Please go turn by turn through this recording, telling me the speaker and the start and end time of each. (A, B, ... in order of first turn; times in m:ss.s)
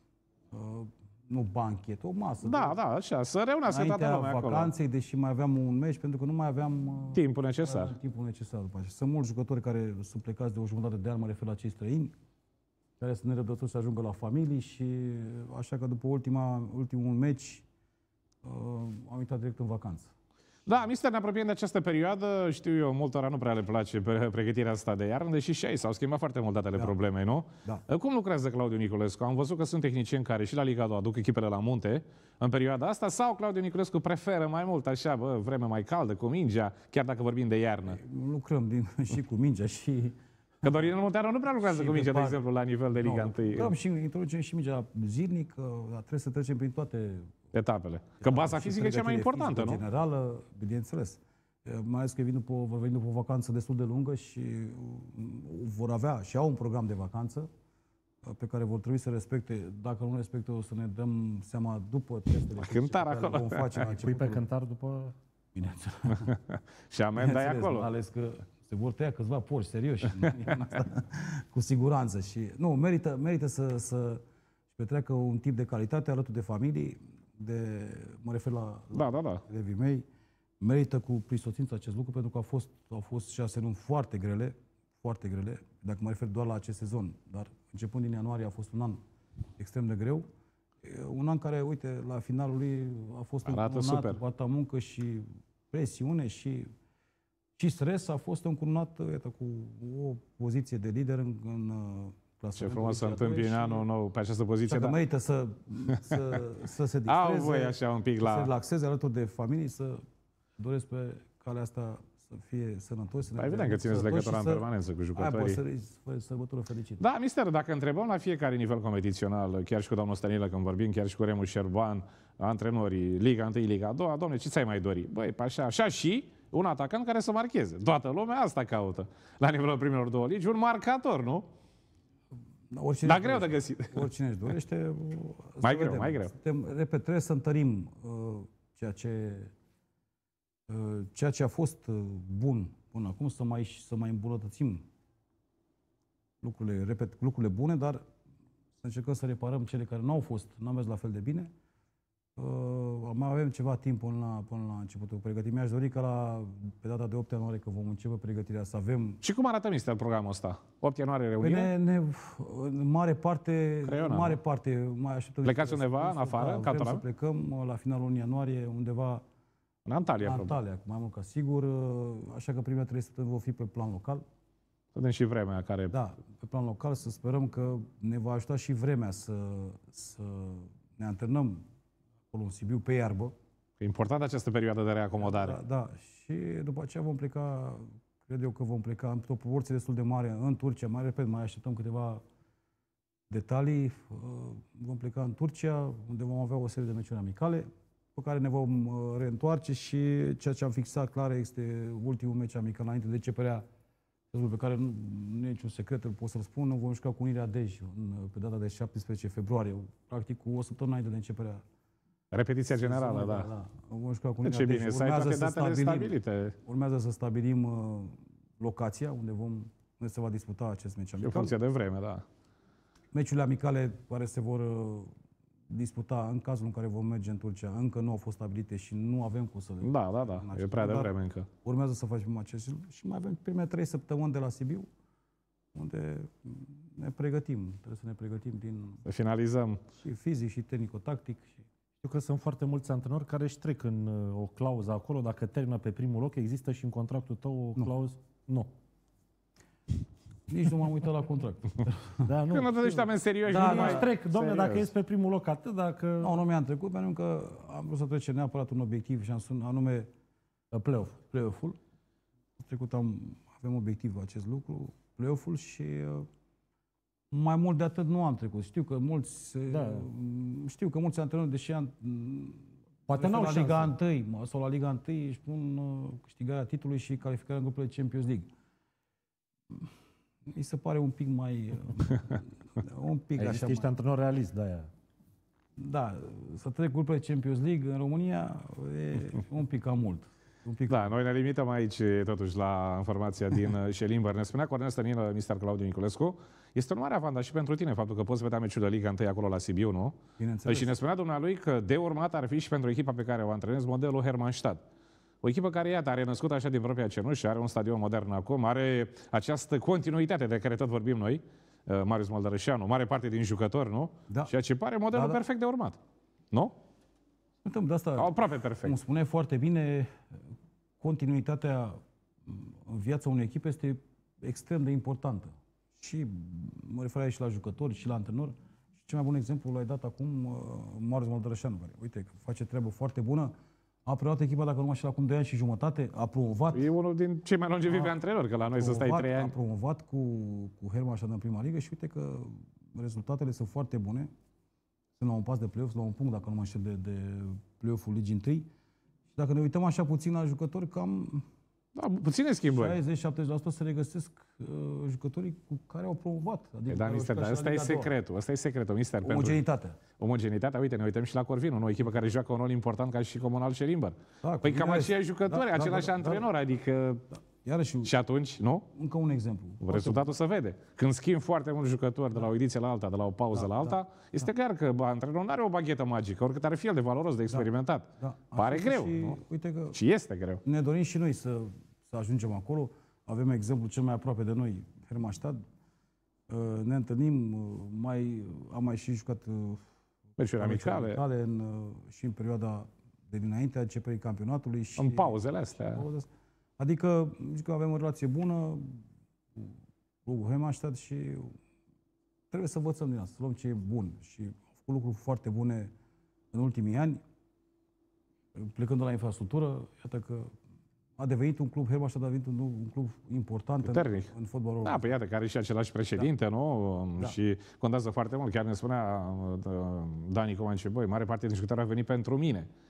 0:00.5-0:02.8 A
0:02.4-0:04.7 B
0:03.7-0:12.1 A
0:07.1-0:07.9 B
0:13.0-0:17.6 A
0:18.4-0:20.1 A
0:20.7-0:38.0 B
0:37.9-0:40.7 A
0:40.6-0:43.7 B
0:41.6-0:42.4 A
0:42.9-0:47.3 A
0:47.5-0:49.8 B
0:48.2-0:57.5 A
0:58.2-1:04.4 A
1:02.5-1:03.9 B
1:04.0-1:05.2 C
1:05.5-1:06.4 A
1:06.2-1:07.9 B
1:07.2-1:14.2 A
1:14.7-1:20.0 A
1:18.9-1:19.4 B
1:20.6-1:29.0 A
1:29.6-1:30.2 A
1:30.8-1:36.7 A
1:33.4-1:34.2 B
1:37.6-1:43.9 A
1:42.6-1:45.0 B
1:44.6-1:50.0 A
1:47.0-1:48.5 B
1:50.6-1:57.0 A
1:53.4-1:55.6 B
1:57.0-2:11.4 B
2:12.7-2:19.5 A
2:13.0-2:14.1 B
2:15.6-2:16.3 B
2:20.7-2:24.8 A
2:26.4-2:28.0 A
2:28.8-2:31.5 A
2:32.4-2:39.2 A
2:39.2-2:41.7 B
2:41.4-2:49.2 A
2:43.8-2:44.4 B
2:45.4-2:47.0 B
2:49.8-2:50.6 B
2:50.2-2:54.2 A
2:54.9-2:56.0 B
2:55.9-3:01.6 A
3:02.3-3:03.3 A
3:03.8-3:05.6 B
3:05.2-3:12.2 A
3:13.3-3:23.6 A
3:24.3-3:31.6 A
3:32.3-3:33.5 B
3:32.7-3:41.5 A
3:34.4-3:36.5 B
3:41.2-3:42.2 B
3:43.1-3:45.1 A
3:45.7-3:51.1 A
3:49.8-3:51.5 B
3:51.6-3:54.9 A
3:55.7-3:59.0 A
3:59.0-3:59.8 B
4:00.0-4:01.6 A
4:02.0-4:08.7 C
4:10.5-4:12.3 A
4:12.2-4:16.3 C
4:12.5-4:14.9 B
4:13.5-4:14.1 A
4:16.2-4:20.1 A
4:20.7-4:21.2 C
4:21.3-4:21.8 A
4:22.6-4:26.2 A
4:27.3-4:38.5 A
4:29.7-4:30.1 C
4:33.1-4:33.9 C
4:40.4-4:43.9 A
4:43.4-4:44.9 C
4:45.8-4:51.1 A
4:50.9-5:04.8 B
5:00.4-5:01.0 A
5:05.4-5:16.0 B
5:15.1-5:15.4 A
5:17.6-5:20.4 A
5:18.2-5:18.9 B
5:21.0-5:33.5 A
5:34.0-5:36.9 A
5:36.7-5:39.5 B
5:38.7-5:44.3 A
5:45.2-5:48.7 A
5:49.3-5:51.5 A
5:52.0-5:53.0 B
5:52.7-5:58.1 A
5:56.9-5:59.6 B
5:59.2-6:00.0 A
6:00.2-6:07.2 B
6:04.4-6:06.5 A
6:07.3-6:08.1 A
6:08.0-6:08.8 B
6:08.9-6:10.3 A
6:09.8-6:19.4 B
6:13.5-6:14.5 A
6:17.5-6:20.0 A
6:19.9-6:20.6 B
6:20.6-6:25.6 A
6:26.5-6:29.8 A
6:30.4-6:31.2 B
6:30.6-6:41.6 A
6:35.0-6:36.0 B
6:42.5-6:45.9 A
6:46.5-6:47.2 A
6:48.5-6:50.5 A
6:51.2-6:55.0 A
6:53.8-6:54.3 B
6:54.8-7:02.7 B